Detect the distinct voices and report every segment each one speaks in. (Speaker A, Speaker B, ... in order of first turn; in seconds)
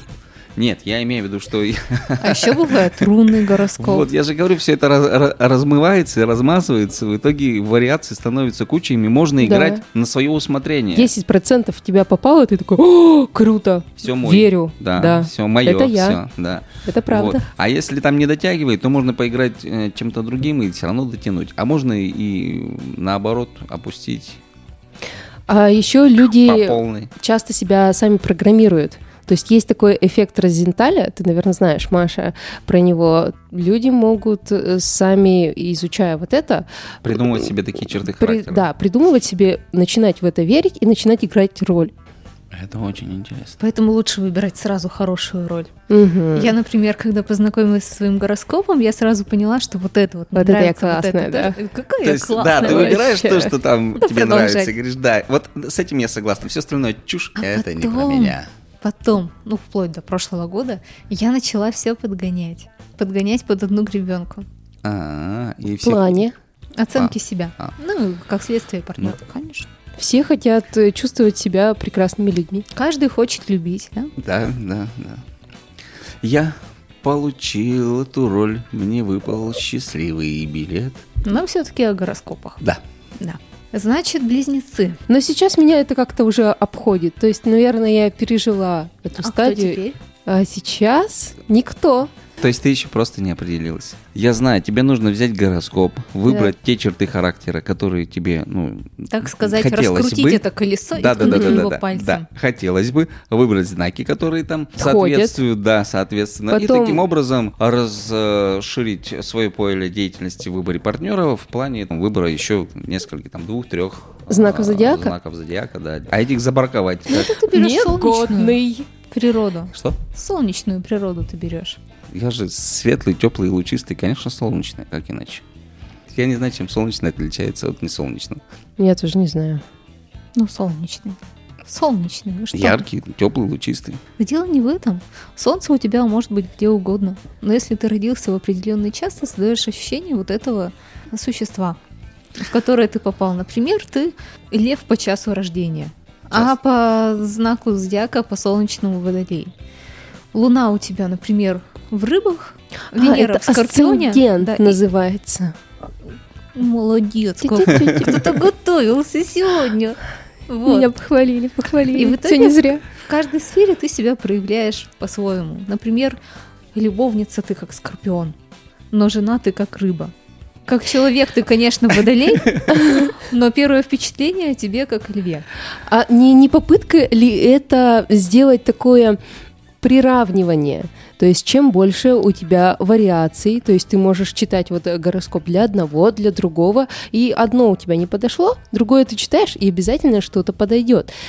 Speaker A: 0.6-3.0, 3.8-11.1, 14.0-24.4, 26.3-27.1, 37.0-38.7, 42.5-43.6, 52.0-58.5, 64.8-66.3, 66.9-67.7, 74.2-75.2, 76.2-81.0, 92.4-100.4, 100.9-117.3, 122.1-125.4, 126.1-128.4, 132.5-134.0
Speaker B: 2.2-4.1, 43.6-45.7, 46.3-53.0, 54.0-54.7, 57.4-64.5, 66.8-69.7, 72.7-74.1, 81.2-82.6, 83.2-85.0, 89.2-90.0, 99.1-102.2, 117.1-121.8, 130.3-132.8, 134.2-141.8, 142.4-149.5, 150.3-154.8, 156.5-160.9, 161.9-166.2, 166.7-168.3, 168.9-170.1, 170.7-175.4
Speaker C: 9.4-9.8, 10.9-16.2, 16.8-17.4, 25.5-37.4, 38.0-41.9, 45.9-46.5, 50.3-51.6, 52.6-53.5, 65.8-66.3, 70.0-72.6, 85.1-92.1, 101.2-101.6, 104.8-105.4, 106.5-107.0, 114.3-115.1, 117.5-118.9, 128.8-129.6, 152.9-155.6, 157.4-158.3, 160.7-162.8, 175.8-179.2, 179.8-191.1